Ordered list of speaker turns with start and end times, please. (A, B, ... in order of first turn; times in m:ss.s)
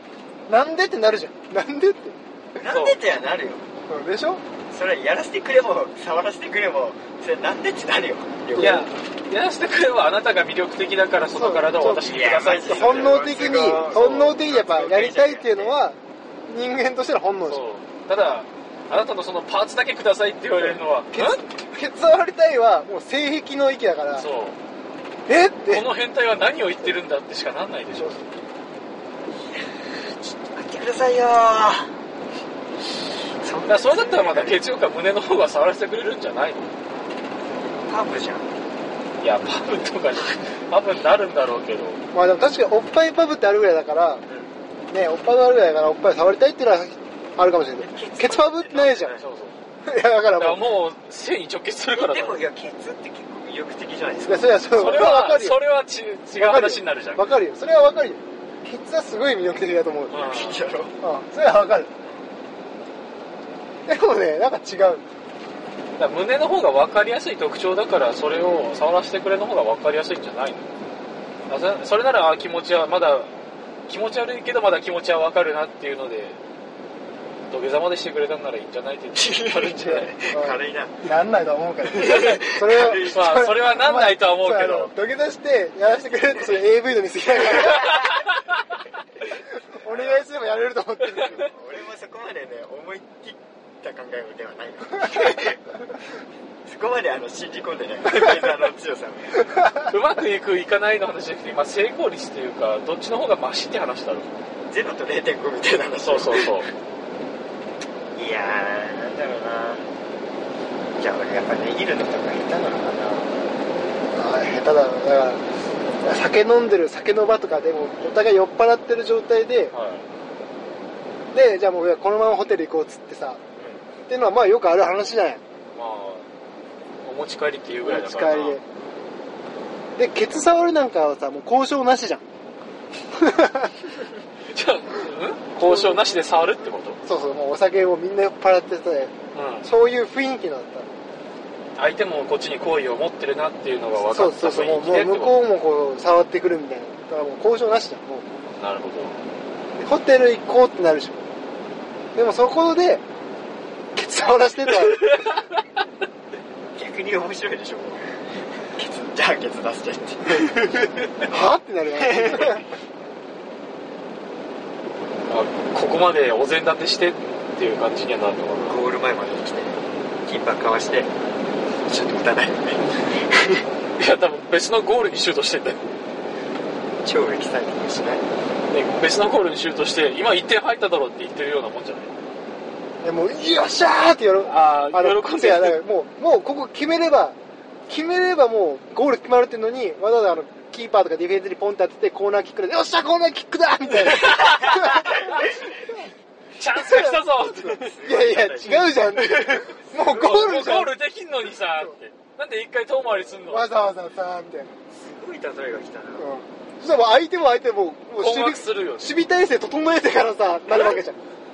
0:00.5-0:02.2 A
0:02.6-0:03.6 B
0:02.7-0:03.0 C
0:03.9-0:04.4 A
0:04.7-0:08.9 B
0:08.6-0:08.9 A
0:08.6-0:13.2 C
0:11.3-0:12.1 A
0:12.0-0:15.8 B
0:12.7-0:17.6 A
0:13.9-0:14.4 C
0:17.5-0:21.4 C
0:20.6-0:24.3 A
0:24.2-0:24.6 C
0:25.3-0:25.9 A
0:25.7-0:28.2 C
0:28.0-0:28.3 A
0:29.9-0:32.0 B
0:33.4-0:34.6 B
0:33.6-0:36.7 C
0:37.8-0:38.5 B
0:39.2-0:42.0 C
0:42.1-0:44.2 A
0:44.3-0:44.5 B
0:44.9-0:49.2 A
0:47.8-0:49.1 B
0:48.8-0:49.6 C
0:49.8-0:50.6 A
0:50.4-0:52.4 C
0:51.9-0:54.8 B
0:54.3-0:55.6 A
0:54.7-0:57.3 C
0:56.4-1:00.2 A
1:00.1-1:00.7 C
1:00.1-1:01.0 B
1:01.0-1:01.9 A
1:03.9-1:05.0 A
1:06.0-1:10.7 C
1:11.5-1:13.3 C
1:13.9-1:16.4 C
1:17.5-1:20.1 C
1:19.1-1:21.1 B
1:20.3-1:28.0 A
1:22.0-1:23.3 B
1:23.0-1:24.9 C
1:27.5-1:28.2 B
1:29.6-1:31.4 A
1:29.9-1:30.3 B
1:31.2-1:35.6 B
1:36.7-1:39.5 B
1:38.1-1:38.4 C
1:39.9-1:44.3 C
1:44.7-1:46.6 B
1:46.0-1:46.7 C
1:48.2-1:49.9 B
1:51.0-1:53.3 B
1:54.1-1:55.4 A
1:56.0-1:59.7 A
1:59.7-2:00.1 C
2:01.3-2:03.4 A
2:03.6-2:03.8 C
2:04.1-2:05.4 A
2:05.7-2:06.3 C
2:07.0-2:08.6 C
2:07.8-2:08.6 A
2:10.0-2:12.2 A
2:13.2-2:13.7 A
2:14.5-2:17.0 C
2:15.6-2:16.2 A
2:17.0-2:21.0 A
2:19.3-2:19.7 C
2:21.8-2:25.4 C
2:24.0-2:28.3 A
2:28.6-2:29.2 C
2:29.8-2:31.3 A
2:32.2-2:33.0 A
2:34.0-2:35.3 A
2:36.8-2:38.0 B
2:38.8-2:41.3 B
2:41.2-2:42.6 A
2:42.0-2:42.6 B
2:45.3-2:48.8 C
2:48.5-2:51.1 B
2:51.9-2:53.6 B
2:54.0-2:55.8 C
2:57.0-2:58.2 B
2:58.7-3:02.1 C
3:03.0-3:07.4 A
3:04.4-3:05.8 C
3:07.9-3:15.4 A
3:14.1-3:15.4 C
3:16.6-3:18.0 C
3:16.7-3:21.0 A
3:17.6-3:19.8 B
3:19.1-3:23.7 C
3:21.7-3:22.0 A
3:23.2-3:24.8 A
3:24.9-3:26.3 B
3:26.2-3:31.2 A
3:28.2-3:29.2 C